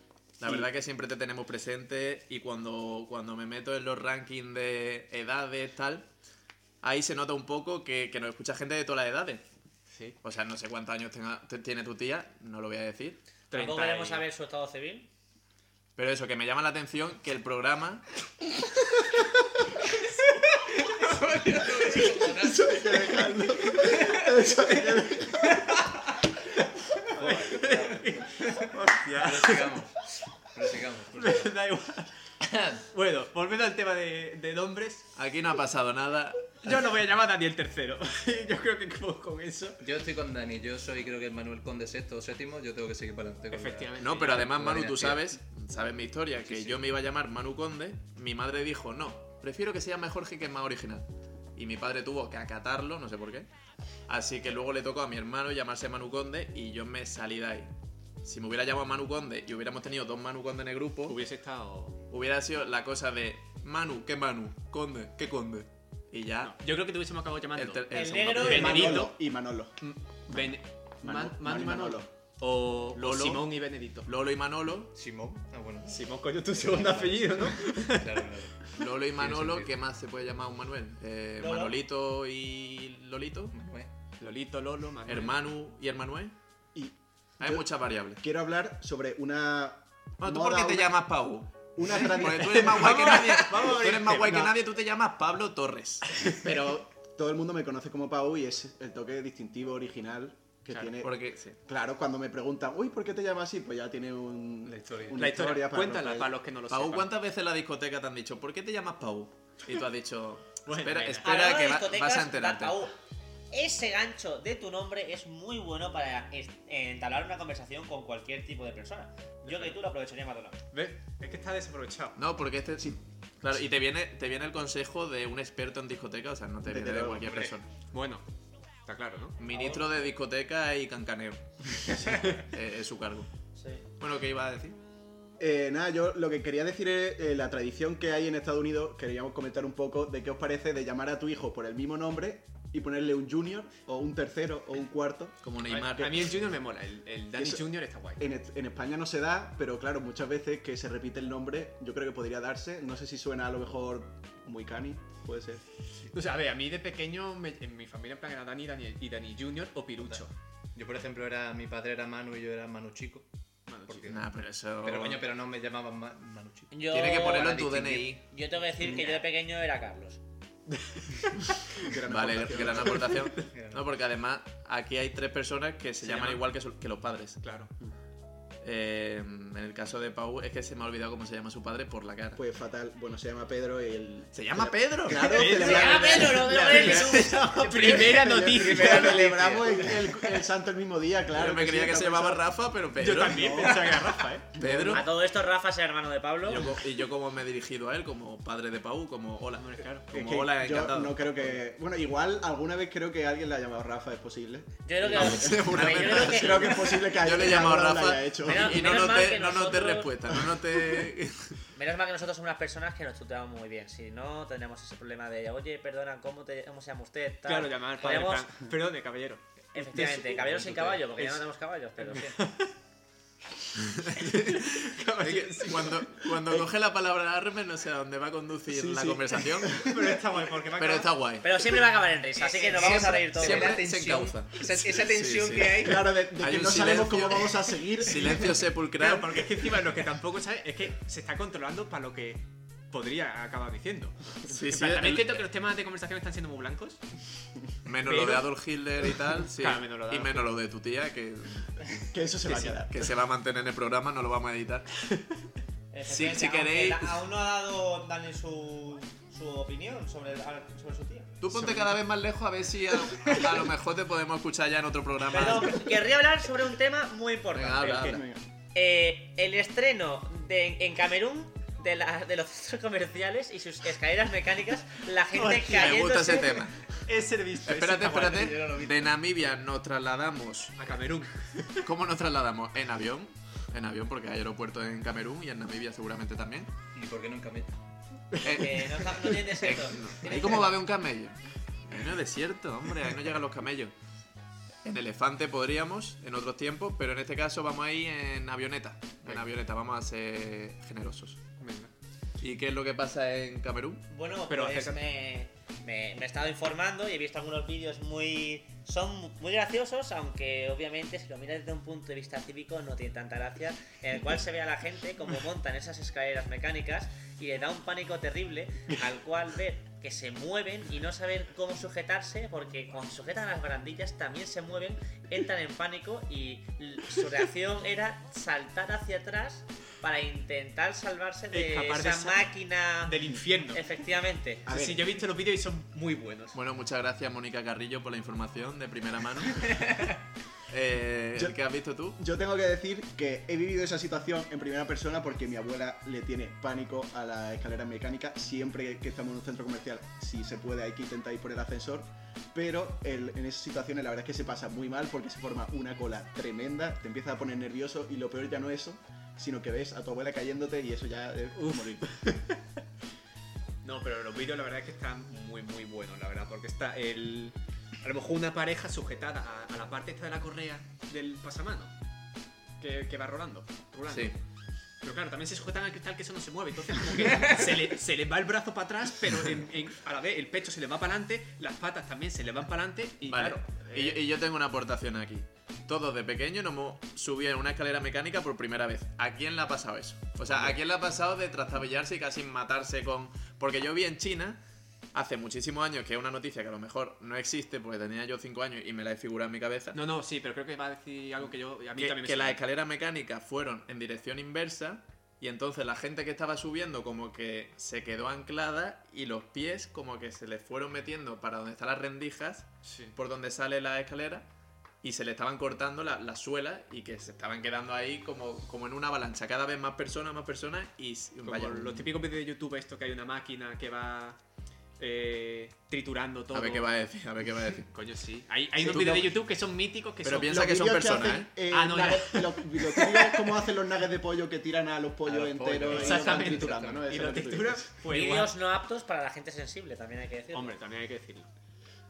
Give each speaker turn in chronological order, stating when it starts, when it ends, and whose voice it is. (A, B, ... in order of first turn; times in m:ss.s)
0:00.4-0:06.1 A
0:06.8-0:09.4 A
0:09.9-0:10.2 B
0:10.2-0:13.2 A
0:13.5-0:14.2 B
0:13.5-0:15.1 C
0:16.0-0:18.1 A
0:20.7-0:22.7 D
0:22.4-0:25.7 E
0:23.8-0:24.4 D
0:27.1-0:29.9 B
0:27.3-0:27.8 D
0:27.6-0:27.9 C
0:29.1-0:30.0 D
0:30.5-0:31.5 D
0:31.2-0:32.1 B
0:32.4-0:32.8 D
0:32.9-0:35.1 B
0:35.2-0:36.8 A
0:36.6-0:39.8 B
0:39.8-0:45.2 D
0:43.5-0:44.6 B
0:44.0-0:53.5 A
0:46.5-0:46.8 B
0:54.1-0:57.7 A
0:58.2-1:01.2 A
1:01.1-1:02.0 B
1:02.1-1:06.6 A
1:06.4-1:07.8 B
1:07.6-1:09.0 A
1:07.9-1:08.9 C
1:08.4-1:09.2 B
1:08.4-1:09.8 E
1:09.8-1:14.1 B
1:11.0-1:12.1 E
1:12.9-1:13.5 A
1:14.0-1:14.9 A
1:15.0-1:16.0 D
1:15.9-1:18.3 B
1:16.7-1:18.6 D
1:18.8-1:23.5 A
1:19.2-1:19.7 D
1:21.4-1:21.8 C
1:23.5-1:23.9 D
1:24.2-1:25.4 B
1:25.0-1:26.3 A
1:26.7-1:31.0 E
1:27.4-1:28.2 A
1:30.2-1:36.8 A
1:31.8-1:33.1 E
1:31.9-1:34.6 B
1:36.6-1:46.3 E
1:41.0-1:41.6 A
1:44.6-1:45.2 D
1:45.1-1:47.1 B
1:46.7-1:52.8 A
1:50.7-1:51.4 B
1:51.2-1:52.9 C
1:53.5-2:00.6 C
1:59.5-1:59.8 B
2:00.7-2:02.2 B
2:02.2-2:07.7 A
2:06.7-2:07.5 E
2:07.3-2:08.2 B
2:08.8-2:09.4 B
2:09.4-2:13.3 A
2:09.5-2:09.8 C
2:12.0-2:12.4 B
2:13.6-2:13.8 C
2:14.0-2:14.8 A
2:15.4-2:25.4 E
2:25.4-2:26.3 A
2:25.7-2:28.2 B
2:27.4-2:35.6 E
2:36.1-2:40.3 B
2:40.8-2:43.3 D
2:43.7-2:44.1 B
2:43.8-2:44.2 D
2:44.1-2:45.2 A
2:44.8-2:48.1 D
2:46.7-2:50.2 C
2:46.9-2:48.2 A
2:51.8-2:53.3 E
2:52.1-2:57.4 A
2:52.5-2:53.4 B
2:53.4-2:53.8 D
2:56.0-2:56.4 B
2:57.4-2:57.7 B
2:58.6-3:02.4 A
3:02.4-3:12.4 E
3:04.3-3:05.5 A
3:05.1-3:10.0 B
3:05.4-3:07.8 C
3:06.7-3:07.1 A
3:11.3-3:14.0 A
3:13.0-3:14.5 B
3:13.3-3:13.8 E
3:14.6-3:15.0 E
3:14.6-3:15.0 A
3:14.9-3:16.6 C
3:16.5-3:21.4 A
3:19.6-3:20.1 B
3:20.1-3:28.8 E
3:24.9-3:27.0 C
3:25.1-3:31.6 A
3:28.4-3:30.2 C
3:31.8-3:38.5 C
3:37.4-3:41.4 B
3:39.7-3:42.4 C
3:42.0-3:42.7 B
3:43.8-3:46.1 B
3:45.2-3:49.9 A
3:48.7-3:51.1 B
3:49.7-3:49.9 E
3:50.8-3:51.5 A
3:51.4-3:53.8 C
3:52.4-3:53.9 B
3:52.6-3:56.0 D
3:53.1-3:59.7 A
3:54.6-3:55.9 B
3:55.8-3:58.5 E
3:59.0-4:07.0 B
4:04.5-4:05.4 A
4:07.9-4:12.1 A
4:08.0-4:08.5 B
4:09.6-4:10.5 B
4:12.1-4:13.1 E
4:12.5-4:12.8 B
4:12.7-4:14.9 A
4:15.9-4:21.3 C
4:16.1-4:17.2 A
4:21.4-4:25.9 A
4:25.3-4:28.1 C
4:27.5-4:28.2 A
4:27.8-4:28.2 B
4:27.9-4:28.4 E
4:28.7-4:36.6 C
4:35.3-4:36.0 B
4:35.7-4:37.0 A
4:37.0-4:38.6 B
4:37.6-4:40.8 A
4:38.5-4:39.0 D
4:40.8-4:41.9 B
4:41.8-4:46.7 A
4:47.0-4:47.8 D
4:48.4-4:53.9 A
4:48.6-4:50.8 C
4:54.8-5:01.4 A
5:01.6-5:01.9 B
5:02.4-5:04.1 A
5:04.1-5:34.7 C
5:04.5-5:05.0 B
5:31.5-5:32.5 B
5:33.1-5:33.8 B
5:34.7-5:35.0 E
5:34.7-5:36.6 B
5:36.5-5:40.1 A
5:40.7-5:42.2 A
5:42.2-6:02.2 E
6:01.6-6:02.4 B
6:03.8-6:11.9 B
6:12.8-6:14.4 B
6:14.1-6:14.3 A
6:15.0-6:24.2 B
6:23.3-6:34.6 A
6:30.5-6:30.8 B
6:35.1-6:40.0 A
6:39.9-6:42.6 B
6:42.0-6:54.5 A
6:52.8-6:53.2 B
6:55.0-7:02.1 A
7:01.4-7:04.4 B
7:05.0-7:06.9 B
7:06.5-7:07.9 A
7:07.9-7:10.7 B
7:08.8-7:09.1 E
7:08.9-7:09.4 A
7:10.2-7:11.5 A
7:10.5-7:17.9 E
7:11.7-7:13.5 B
7:15.3-7:17.4 D
7:15.9-7:18.5 B
7:18.1-7:20.8 C
7:20.5-7:21.5 B